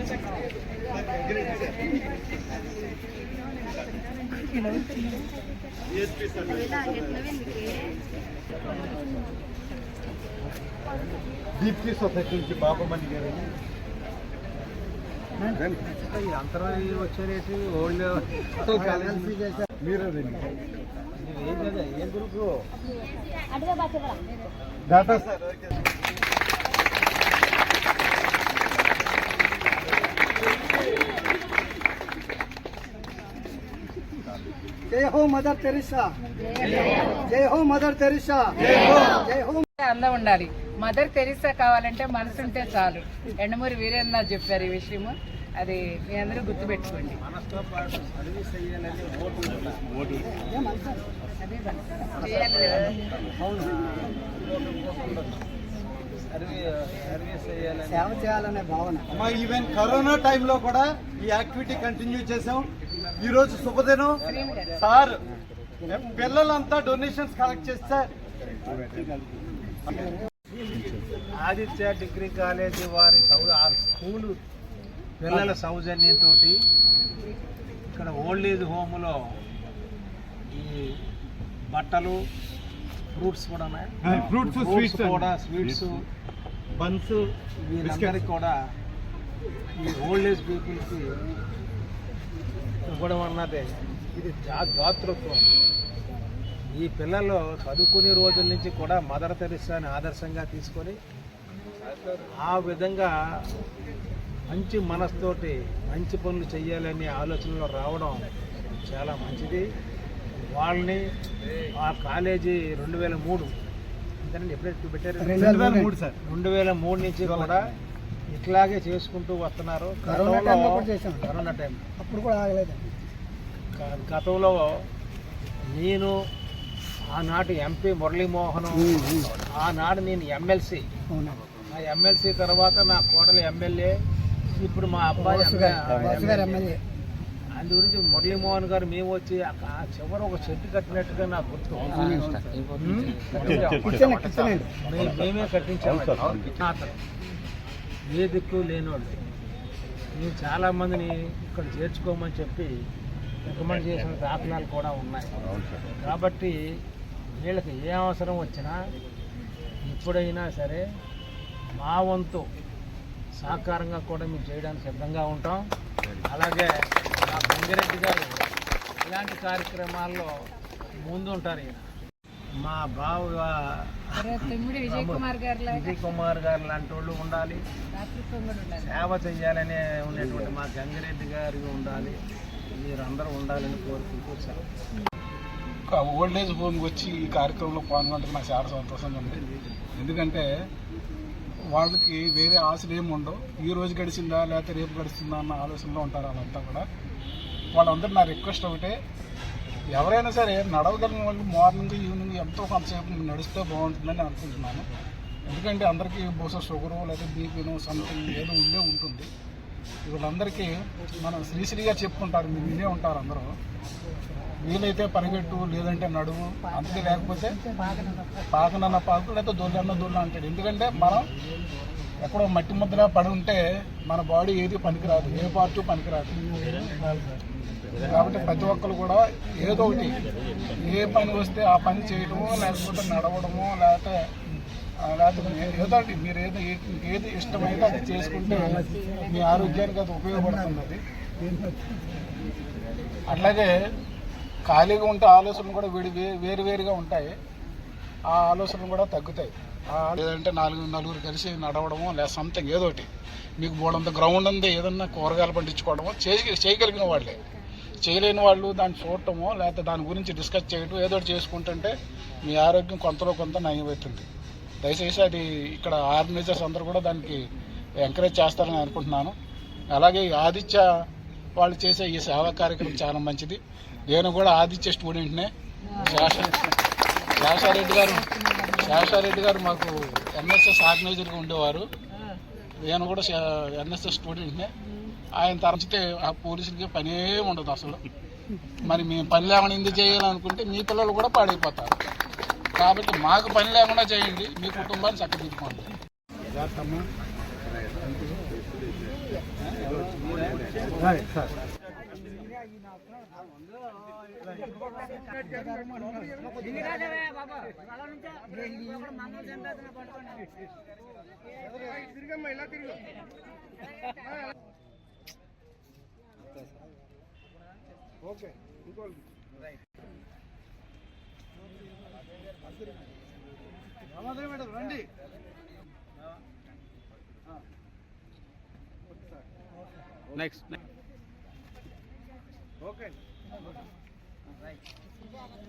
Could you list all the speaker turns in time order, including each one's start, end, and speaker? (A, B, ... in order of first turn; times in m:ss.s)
0:04.7-0:05.0 A
0:06.4-0:07.2 B
0:11.6-0:13.5 B
0:15.8-0:19.4 C
0:18.7-0:19.2 B
0:19.8-0:20.5 B
0:21.2-0:22.5 C
0:24.8-0:25.5 B
0:34.9-0:36.1 D
0:36.6-0:37.1 A
0:37.3-0:39.6 D
0:39.8-0:47.2 A
0:47.1-0:50.3 C
0:51.4-0:53.0 A
0:52.2-0:53.0 C
0:53.6-0:54.1 C
0:54.6-0:55.2 C
0:56.3-0:58.2 C
0:58.1-0:59.0 D
0:59.1-1:05.2 B
1:04.3-1:04.8 A
1:05.9-1:08.1 B
1:11.4-1:14.4 C
1:15.2-1:16.6 C
1:17.9-1:19.1 C
1:20.5-1:20.9 C
1:21.7-1:22.2 C
1:23.1-1:26.0 C
1:24.0-1:25.8 B
1:26.7-1:27.2 B
1:27.6-1:28.6 C
1:27.8-1:28.2 B
1:29.8-1:31.0 C
1:32.8-1:35.5 C
1:36.7-1:41.0 C
1:42.4-1:43.1 C
1:44.5-1:48.2 C
1:48.9-1:49.6 C
1:50.5-1:51.0 C
1:51.7-1:53.5 C
1:54.2-1:55.6 C
1:55.2-1:55.9 D
1:55.4-1:56.1 B
1:56.2-1:57.6 C
1:58.3-2:01.9 C
2:00.2-2:01.1 D
2:02.0-2:02.9 D
2:03.7-2:04.6 C
2:05.8-2:06.2 C
2:07.1-2:10.8 C
2:11.6-2:13.9 C
2:14.6-2:16.8 C
2:16.3-2:16.6 D
2:17.6-2:24.2 C
2:23.8-2:24.7 D
2:24.8-2:27.0 C
2:28.1-2:29.1 C
2:30.2-2:32.7 C
2:33.4-2:35.3 C
2:36.0-2:36.6 C
2:37.4-2:38.8 C
2:39.9-2:40.8 C
2:41.8-2:42.5 C
2:43.4-2:45.6 C
2:46.2-2:46.7 C
2:47.2-2:48.4 C
2:49.0-2:50.3 C
2:51.0-2:51.8 C
2:52.6-2:57.6 C
2:54.2-2:55.9 A
2:58.0-2:58.9 A
2:58.8-3:04.6 C
3:05.9-3:09.4 E
3:09.9-3:10.4 E
3:11.7-3:16.8 E
3:17.7-3:19.0 E
3:19.9-3:24.9 E
3:25.5-3:29.3 E
3:30.0-3:33.5 E
3:34.6-3:37.6 E
3:38.5-3:41.3 E
3:42.2-3:46.5 E
3:48.0-3:50.2 E
3:50.8-3:54.2 E
3:55.0-4:01.0 E
4:03.3-4:03.8 E
4:04.6-4:07.3 E
4:08.3-4:13.1 E
4:13.6-4:17.4 E
4:18.0-4:24.2 E
4:24.8-4:27.4 E
4:28.0-4:29.3 E
4:29.9-4:30.8 E
4:31.6-4:36.7 E
4:37.4-4:41.9 E
4:38.4-4:38.9 A
4:42.8-4:44.7 E
4:45.3-4:48.0 E
4:48.8-4:51.9 E
4:52.8-4:55.9 E
4:56.5-4:57.0 E
5:24.5-5:24.9 B